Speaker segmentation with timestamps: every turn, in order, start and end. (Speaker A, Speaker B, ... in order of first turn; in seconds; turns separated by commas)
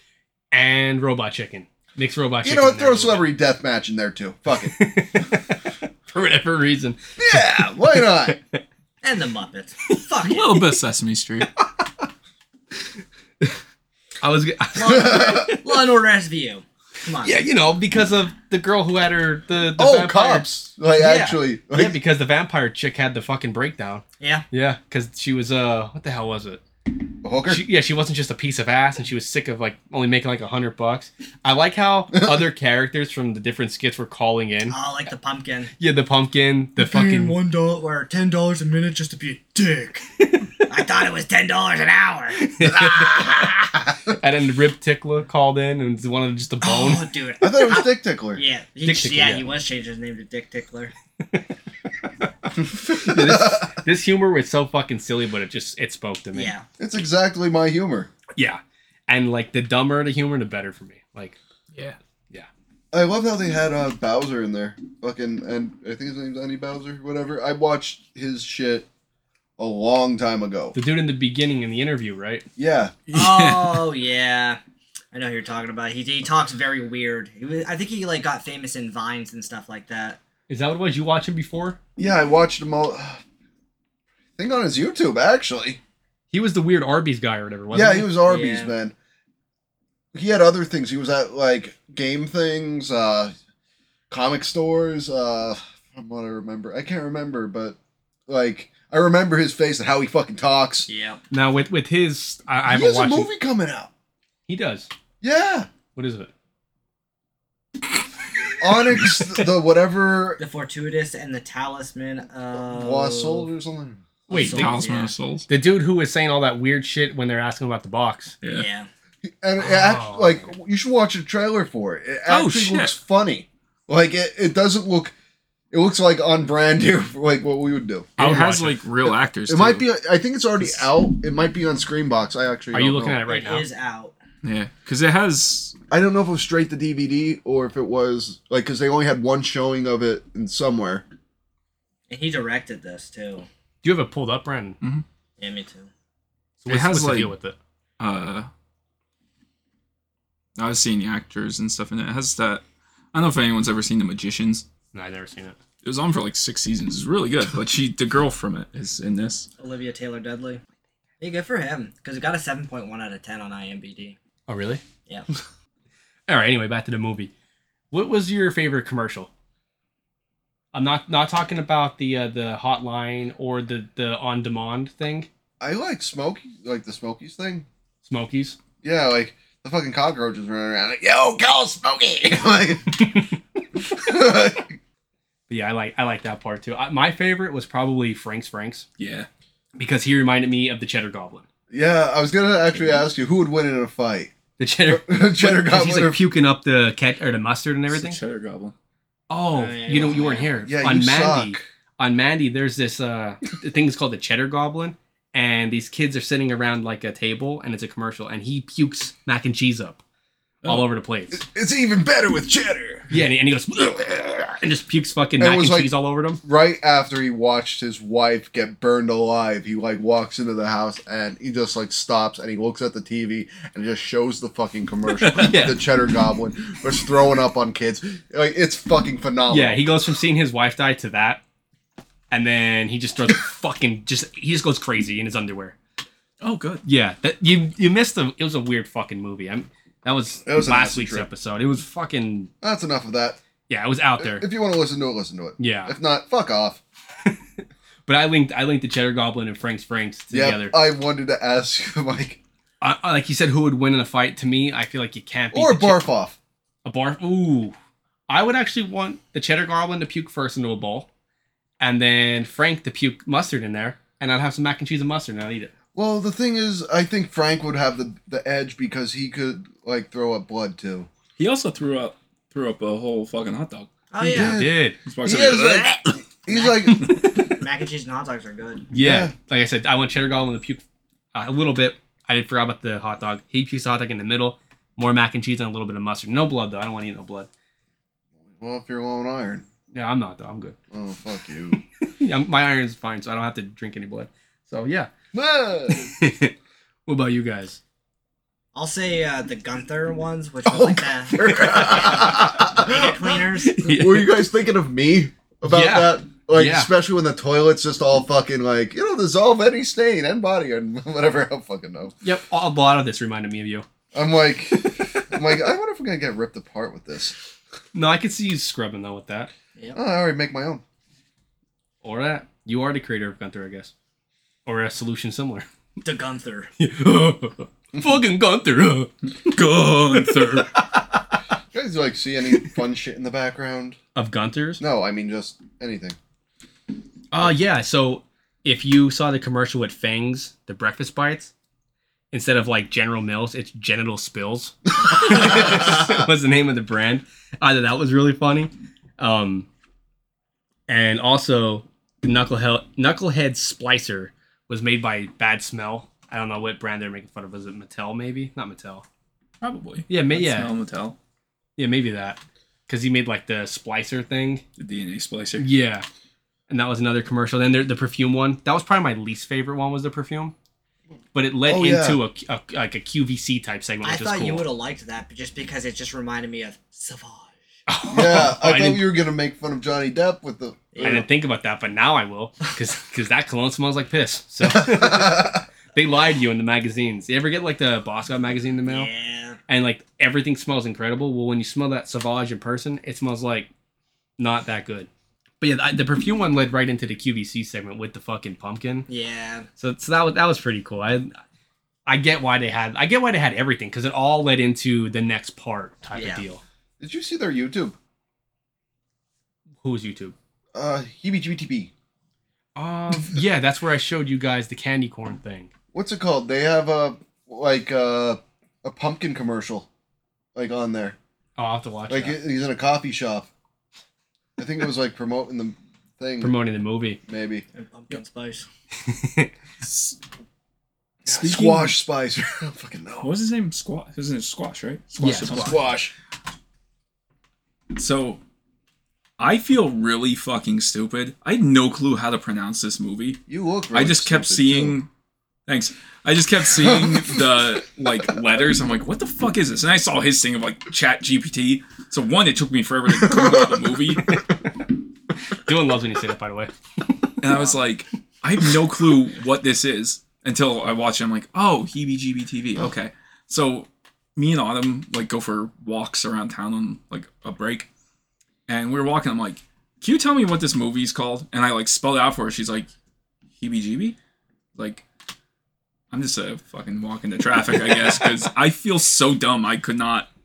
Speaker A: 0.5-3.2, Speaker B: 2.4-4.8, Speaker A: 4.6-8.6, Speaker B: 7.2-8.4, Speaker C: 9.0-10.7, Speaker D: 10.2-11.5, Speaker A: 14.2-15.7, Speaker C: 14.8-17.4, Speaker B: 14.8-15.5, Speaker A: 17.2-26.6, Speaker B: 19.8-22.0, Speaker C: 24.2-24.5, Speaker B: 27.2-27.6, Speaker A: 27.5-34.8, Speaker B: 32.1-32.4, Speaker C: 34.7-35.7, Speaker A: 35.8-37.4, Speaker C: 36.8-40.0, Speaker A: 40.2-40.7, Speaker C: 40.6-42.4, Speaker A: 42.4-43.5, Speaker A: 44.1-47.1, Speaker C: 46.6-50.9, Speaker B: 47.4-48.4, Speaker A: 48.9-49.5, Speaker A: 51.2-51.5, Speaker B: 52.5-53.7, Speaker A: 53.0-56.5, Speaker C: 56.3-56.6, Speaker B: 56.8-58.1, Speaker A: 58.4-61.4, Speaker B: 62.9-68.9, Speaker B: 69.6-70.8, Speaker A: 70.7-72.5, Speaker B: 72.6-73.0, Speaker D: 73.1-73.8, Speaker C: 73.1-74.6, Speaker C: 75.1-80.2, Speaker A: 80.5-81.8, Speaker B: 82.0-83.2, Speaker B: 84.4-85.8, Speaker A: 86.3-88.1, Speaker B: 87.7-88.9, Speaker C: 88.3-88.8, Speaker B: 90.1-93.3, Speaker B: 94.1-100.9, Speaker C: 100.9-101.2, Speaker A: 101.3-103.3, Speaker B: 102.7-103.9, Speaker A: 104.5-104.9, Speaker B: 105.2-105.7, Speaker A: 106.0-106.3, Speaker B: 108.6-110.4, Speaker C: 110.4-113.5, Speaker B: 112.7-114.6, Speaker A: 114.3-114.8, Speaker C: 114.3-115.1, Speaker D: 114.3-115.5, Speaker A: 115.5-118.3, Speaker D: 118.4-118.7, Speaker C: 118.5-118.9, Speaker B: 119.2-125.1, Speaker A: 119.6-120.5, Speaker D: 122.3-122.9, Speaker B: 125.7-128.2, Speaker D: 128.2-129.8, Speaker A: 128.2-128.8, Speaker B: 129.5-133.2, Speaker A: 132.7-133.7, Speaker C: 133.3-134.2, Speaker D: 134.4-135.8, Speaker B: 135.9-141.1, Speaker C: 142.1-143.5, Speaker A: 143.8-144.8, Speaker C: 145.4-145.9, Speaker A: 146.6-147.6, Speaker D: 146.7-147.3, Speaker D: 148.0-148.5, Speaker D: 150.6-154.7, Speaker A: 154.9-155.6, Speaker D: 155.8-159.5, Speaker C: 159.6-160.6, Speaker C: 161.2-164.2, Speaker A: 164.5-164.8, Speaker A: 166.3-167.3, Speaker A: 167.9-169.3, Speaker A: 170.7-175.3, Speaker B: 175.6-177.7, Speaker A: 178.0-178.6, Speaker B: 178.8-183.0, Speaker A: 183.0-183.3, Speaker B: 183.9-184.8, Speaker A: 185.5-188.9, Speaker D: 189.0-189.3, Speaker A: 189.8-191.4, Speaker B: 191.7-194.3, Speaker A: 194.6-198.2, Speaker B: 194.9-196.2, Speaker D: 197.9-198.7, Speaker A: 199.3-210.0, Speaker C: 199.5-200.6, Speaker B: 200.6-201.6, Speaker A: 210.7-211.4, Speaker B: 211.3-213.1, Speaker A: 213.1-216.4, Speaker B: 215.4-229.8, Speaker A: 225.4-225.8, Speaker A: 229.5-231.4, Speaker A: 232.3-235.8, Speaker D: 236.4-236.8, Speaker A: 236.8-242.5, Speaker B: 240.5-241.3, Speaker B: 242.6-243.4, Speaker A: 243.7-244.5, Speaker B: 244.2-246.8, Speaker A: 245.6-246.0, Speaker A: 248.1-250.8, Speaker B: 250.3-252.4, Speaker A: 252.8-256.1, Speaker B: 255.5-256.4, Speaker A: 256.9-257.8, Speaker A: 258.3-261.1, Speaker A: 261.8-265.7, Speaker B: 265.9-271.1, Speaker D: 271.4-273.9, Speaker C: 274.1-274.6, Speaker B: 274.2-277.2, Speaker A: 274.3-275.0, Speaker D: 275.1-276.2, Speaker C: 276.5-278.9, Speaker A: 276.9-277.6, Speaker A: 278.9-280.8, Speaker B: 279.0-279.3, Speaker A: 281.3-287.5, Speaker B: 288.5-289.6, Speaker A: 289.9-290.8, Speaker B: 290.9-291.8, Speaker A: 292.0-295.1, Speaker B: 295.3-296.1, Speaker A: 295.9-296.5, Speaker A: 297.1-297.8, Speaker C: 298.7-303.8, Speaker B: 300.6-312.1, Speaker A: 301.5-301.9, Speaker A: 303.6-304.3, Speaker A: 305.6-306.9, Speaker A: 312.2-313.9, Speaker B: 314.1-317.4, Speaker A: 317.9-319.5, Speaker B: 319.9-320.8, Speaker A: 322.0-323.9, Speaker A: 324.7-325.7, Speaker C: 326.0-326.7, Speaker A: 326.8-331.2, Speaker D: 329.4-330.7, Speaker B: 331.7-334.0, Speaker A: 334.1-334.8, Speaker B: 334.8-336.2, Speaker A: 337.3-341.5, Speaker A: 342.3-349.7, Speaker B: 345.2-346.2, Speaker A: 350.9-359.1, Speaker D: 359.6-361.2, Speaker A: 360.1-360.7, Speaker A: 361.8-364.6, Speaker D: 364.8-365.7, Speaker A: 365.6-366.1, Speaker A: 366.7-370.5, Speaker A: 371.3-374.7, Speaker B: 371.7-372.2, Speaker C: 374.0-377.6, Speaker A: 377.9-379.1, Speaker B: 378.1-381.2, Speaker C: 380.9-381.2, Speaker A: 381.0-389.1, Speaker B: 384.6-385.6, Speaker C: 388.9-389.6, Speaker A: 389.7-393.7, Speaker A: 394.4-395.1, Speaker A: 395.6-399.1, Speaker C: 399.1-399.7, Speaker A: 399.8-401.4, Speaker A: 402.1-406.6, Speaker C: 406.1-406.4, Speaker B: 407.0-408.0, Speaker A: 409.8-410.4, Speaker B: 410.7-411.9, Speaker A: 412.8-415.7, Speaker B: 415.9-419.9, Speaker B: 420.6-421.2, Speaker A: 421.6-422.4, Speaker B: 422.1-423.5, Speaker B: 424.6-426.6, Speaker A: 426.4-427.2, Speaker B: 427.3-427.6, Speaker C: 427.7-428.7, Speaker A: 429.0-429.5, Speaker D: 429.8-430.2, Speaker D: 431.2-431.9, Speaker B: 431.3-433.3, Speaker D: 433.2-436.0, Speaker A: 435.2-435.8, Speaker B: 435.4-436.1, Speaker D: 437.9-438.4, Speaker D: 439.4-443.4, Speaker B: 443.5-445.0, Speaker D: 443.9-445.1, Speaker D: 445.7-454.5, Speaker B: 446.7-447.6, Speaker B: 453.1-454.4, Speaker A: 454.2-454.5, Speaker A: 455.5-457.4, Speaker D: 457.4-467.9, Speaker D: 468.7-472.9, Speaker D: 473.6-474.2, Speaker D: 474.8-475.1, Speaker D: 476.1-480.3